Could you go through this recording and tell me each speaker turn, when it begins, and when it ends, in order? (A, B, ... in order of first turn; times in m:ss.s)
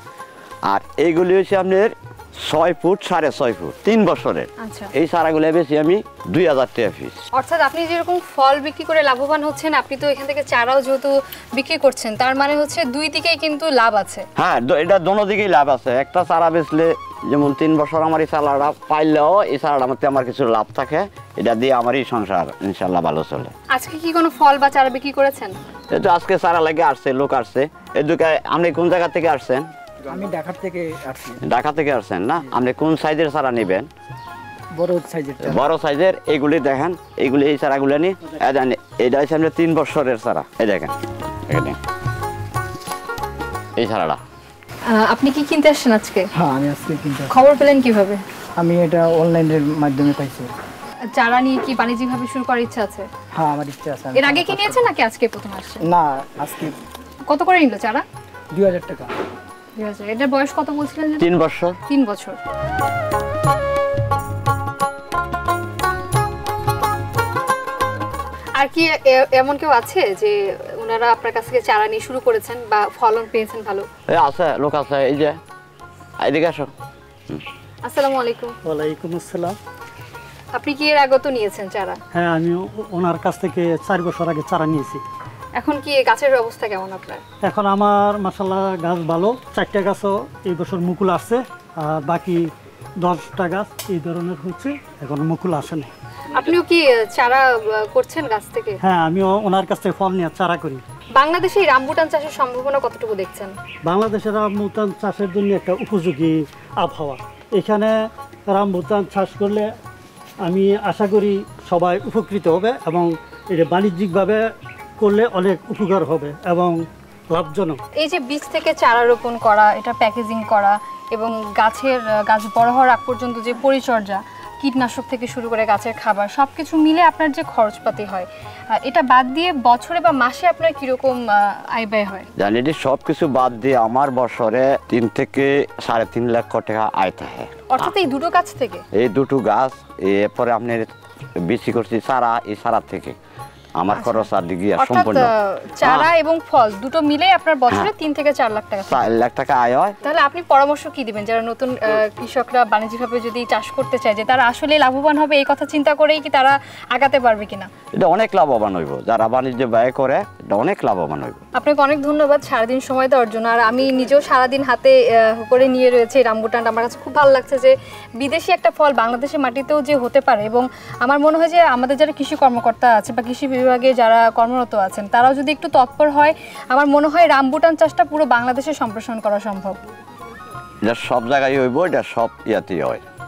0:00.7-0:07.2 A
0:04.6-0:04.9 B
0:07.3-0:14.3 B
0:14.4-0:23.5 A
0:23.7-0:25.5 B
0:25.9-0:29.7 A
0:30.0-0:31.4 C
0:31.4-0:33.9 A
0:34.8-0:35.6 C
0:35.4-0:40.9 A
0:41.5-0:41.8 A
0:43.8-0:44.2 A
0:44.9-0:46.3 B
0:46.3-0:47.3 C
0:47.3-0:48.2 B
0:48.6-0:50.5 C
0:51.1-0:53.1 B
0:53.3-0:54.8 C
0:54.1-0:55.8 B
0:55.8-0:56.8 C
0:57.3-0:58.0 B
0:58.5-0:59.1 C
0:59.8-1:01.3 B
1:01.2-1:01.8 A
1:01.9-1:02.4 B
1:08.6-1:13.8 B
1:14.1-1:15.4 A
1:16.2-1:16.7 A
1:17.8-1:18.6 B
1:18.6-1:19.6 D
1:20.5-1:22.0 B
1:22.1-1:25.0 D
1:25.6-1:27.2 B
1:27.4-1:32.4 D
1:33.0-1:35.9 D
1:36.3-1:38.8 B
1:38.8-1:40.8 D
1:41.2-1:43.5 B
1:43.8-1:47.9 D
1:48.5-1:49.7 D
1:50.4-1:54.4 D
1:55.0-1:56.8 D
1:57.3-1:57.8 D
1:58.0-2:12.3 B
2:12.4-2:17.9 A
2:17.7-2:18.8 B
2:18.9-2:20.9 A
2:21.4-2:23.2 A
2:23.8-2:25.3 A
2:23.9-2:29.1 B
2:25.8-2:26.1 A
2:28.9-2:30.0 A
2:30.0-2:37.7 B
2:38.0-2:41.4 A
2:41.5-2:59.8 B
3:00.8-3:03.0 A